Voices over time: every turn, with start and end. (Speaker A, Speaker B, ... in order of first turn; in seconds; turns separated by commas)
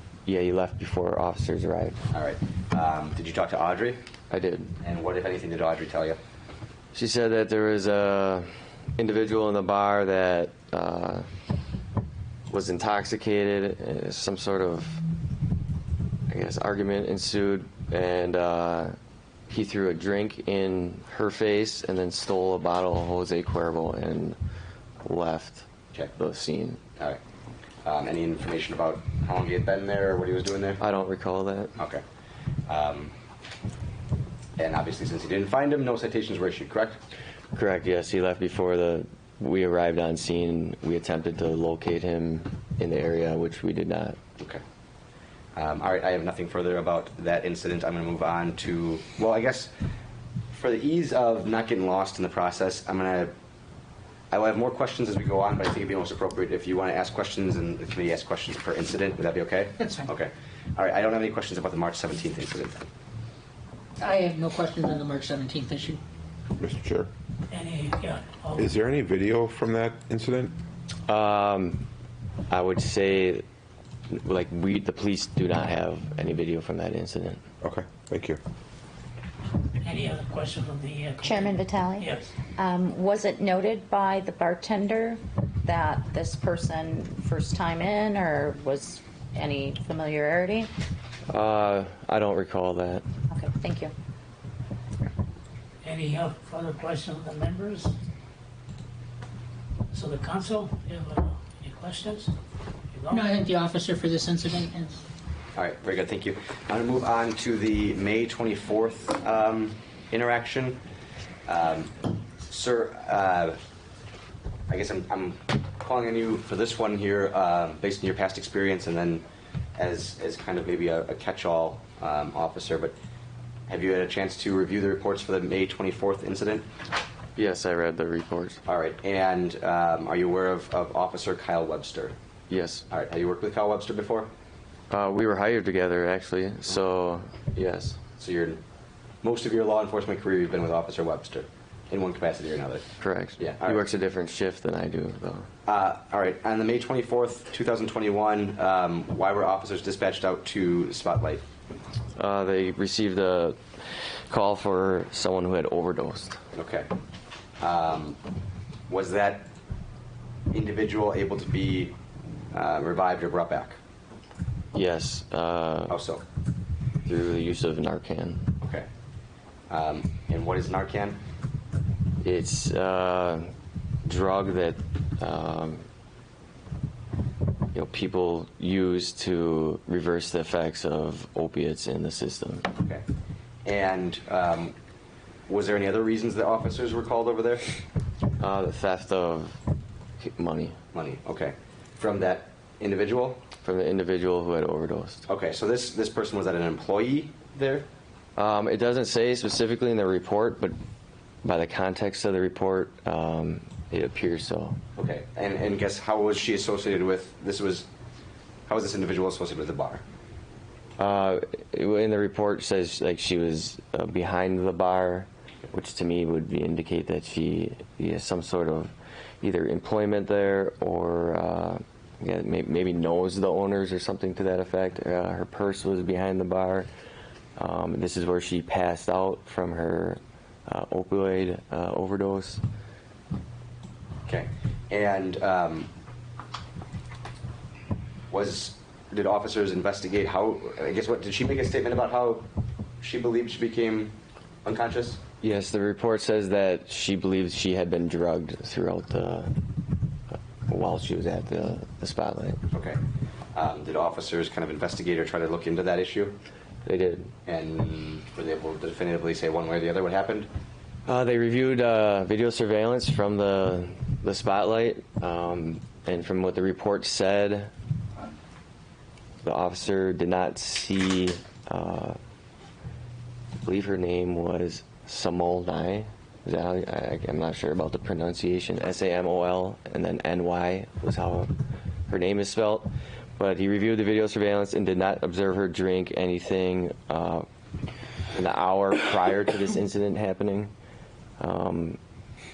Speaker A: 0.3-2.0, Speaker B: 2.1-4.0, Speaker A: 4.3-4.8, Speaker B: 4.8-6.2, Speaker A: 6.9-11.3, Speaker A: 12.5-15.0, Speaker A: 16.3-18.9, Speaker A: 19.5-24.4, Speaker A: 25.0-26.8, Speaker B: 27.9-30.8, Speaker A: 30.8-31.7, Speaker B: 31.8-32.0, Speaker B: 32.7-33.1, Speaker B: 34.6-37.0, Speaker A: 37.5-44.2, Speaker B: 45.5-49.7, Speaker B: 50.5-53.3, Speaker B: 54.3-62.8, Speaker C: 59.8-60.1, Speaker C: 64.0-66.0, Speaker D: 66.6-67.1, Speaker E: 67.5-68.7, Speaker D: 68.6-70.5, Speaker A: 71.1-71.9, Speaker A: 72.5-73.4, Speaker A: 74.1-77.4, Speaker D: 77.6-78.4, Speaker E: 79.8-82.3, Speaker F: 81.2-90.7, Speaker A: 91.3-93.0, Speaker F: 93.3-93.9, Speaker E: 95.8-98.0, Speaker E: 99.9-102.3, Speaker E: 102.9-103.3, Speaker C: 103.1-105.0, Speaker B: 105.6-110.8, Speaker B: 111.5-111.9, Speaker B: 112.4-113.6, Speaker B: 114.7-123.0, Speaker B: 123.7-126.7, Speaker A: 127.4-128.6, Speaker B: 128.7-132.2, Speaker A: 132.5-132.9, Speaker B: 132.9-134.3, Speaker A: 134.9-138.0, Speaker B: 138.2-138.6, Speaker B: 139.2-142.8, Speaker A: 143.0-145.5, Speaker B: 143.4-143.8, Speaker B: 145.7-151.4, Speaker A: 152.2-153.6, Speaker A: 154.3-156.4, Speaker B: 156.5-156.9, Speaker B: 157.6-158.2, Speaker B: 158.9-159.5, Speaker B: 160.5-162.0, Speaker B: 162.5-163.8, Speaker A: 164.7-166.0, Speaker B: 165.9-166.2, Speaker A: 167.1-168.5, Speaker B: 168.6-168.9, Speaker B: 169.7-171.2, Speaker A: 172.2-173.5, Speaker A: 174.1-175.8, Speaker A: 177.7-182.7, Speaker B: 182.8-183.0, Speaker B: 183.7-184.8, Speaker B: 185.5-187.6, Speaker A: 188.4-189.6, Speaker A: 190.2-190.8, Speaker B: 190.9-193.4, Speaker A: 193.6-195.2, Speaker B: 195.3-197.9, Speaker A: 198.4-200.7, Speaker A: 201.4-204.8, Speaker B: 205.0-207.9, Speaker B: 208.7-210.0, Speaker A: 211.0-226.9, Speaker A: 227.6-232.6, Speaker B: 234.3-235.9, Speaker B: 238.3-242.5, Speaker B: 243.0-245.2, Speaker A: 245.4-249.6, Speaker A: 250.7-252.6, Speaker B: 252.7-253.0, Speaker B: 253.5-256.4, Speaker A: 256.9-257.3, Speaker B: 257.5-260.5, Speaker A: 261.1-267.7, Speaker A: 269.4-272.2, Speaker A: 273.6-281.5, Speaker A: 282.1-287.5, Speaker A: 288.3-290.7, Speaker A: 291.4-292.0